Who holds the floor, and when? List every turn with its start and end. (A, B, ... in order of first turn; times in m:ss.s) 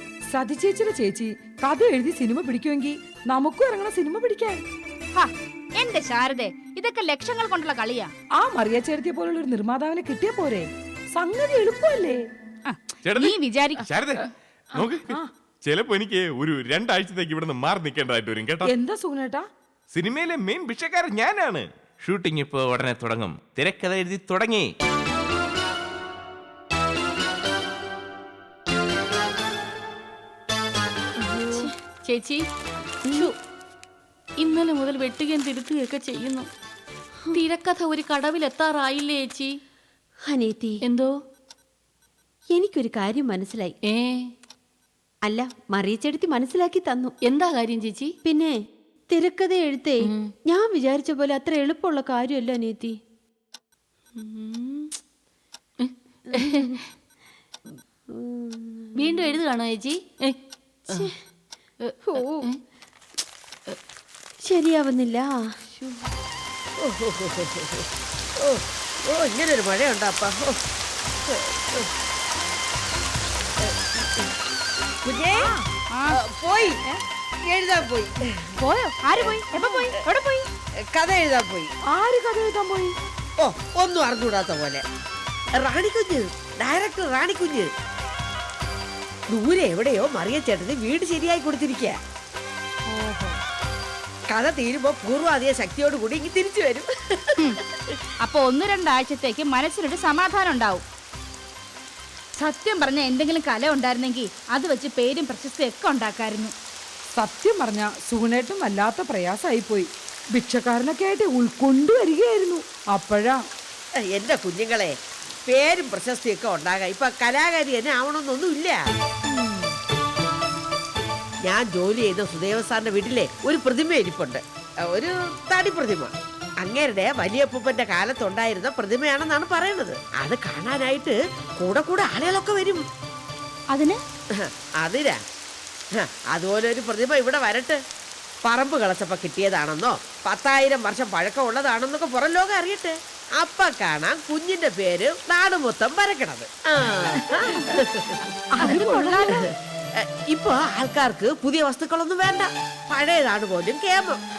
0:00.3-0:04.6 A
0:05.2-0:08.1 B
0:08.4-0:12.2 A
0:12.7-0:13.8 B
0:13.0-0:18.7 C
0:14.8-0:15.3 A
0:18.6-0:19.4 A
0:19.9-0:24.7 C
0:31.2-0:31.7 D
0:31.6-0:32.4 E
0:33.0-0:33.3 D
0:34.4-0:36.5 E
0:37.3-0:39.6 E
0:40.2-0:40.8 D
0:40.8-0:41.1 E
0:42.5-0:43.7 D
0:43.8-0:44.3 E
0:45.2-0:47.1 D
0:47.2-0:48.1 E
0:48.2-0:53.0 D
0:50.1-0:50.3 E
0:54.2-0:54.9 E
0:56.3-0:56.8 D
0:58.1-0:59.4 D
0:59.0-1:00.4 E
1:00.9-1:01.2 D
1:01.8-1:02.5 E
1:02.0-1:02.5 D
1:04.4-1:06.0 D
1:06.8-1:07.8 F
1:08.4-1:10.6 F
1:11.3-1:11.9 F
1:15.0-1:15.5 F
1:15.3-1:15.6 A
1:16.1-1:16.8 F
1:17.4-1:18.5 F
1:18.6-1:19.0 A
1:19.0-1:20.4 B
1:19.5-1:19.8 A
1:20.9-1:21.7 F
1:21.8-1:22.9 A
1:23.4-1:24.8 F
1:25.5-1:27.7 F
1:29.3-1:31.9 F
1:32.9-1:33.4 A
1:34.3-1:37.5 F
1:38.2-1:40.8 B
1:42.4-1:46.5 B
1:47.2-1:53.4 A
1:54.1-1:54.9 F
1:55.5-1:58.8 F
1:59.4-1:59.6 A
2:01.4-2:12.8 F
2:13.7-2:14.0 B
2:14.4-2:15.2 F
2:16.0-2:17.8 F
2:18.4-2:28.8 F
2:28.5-2:29.4 A
2:28.6-2:29.4 B
2:30.0-2:34.2 F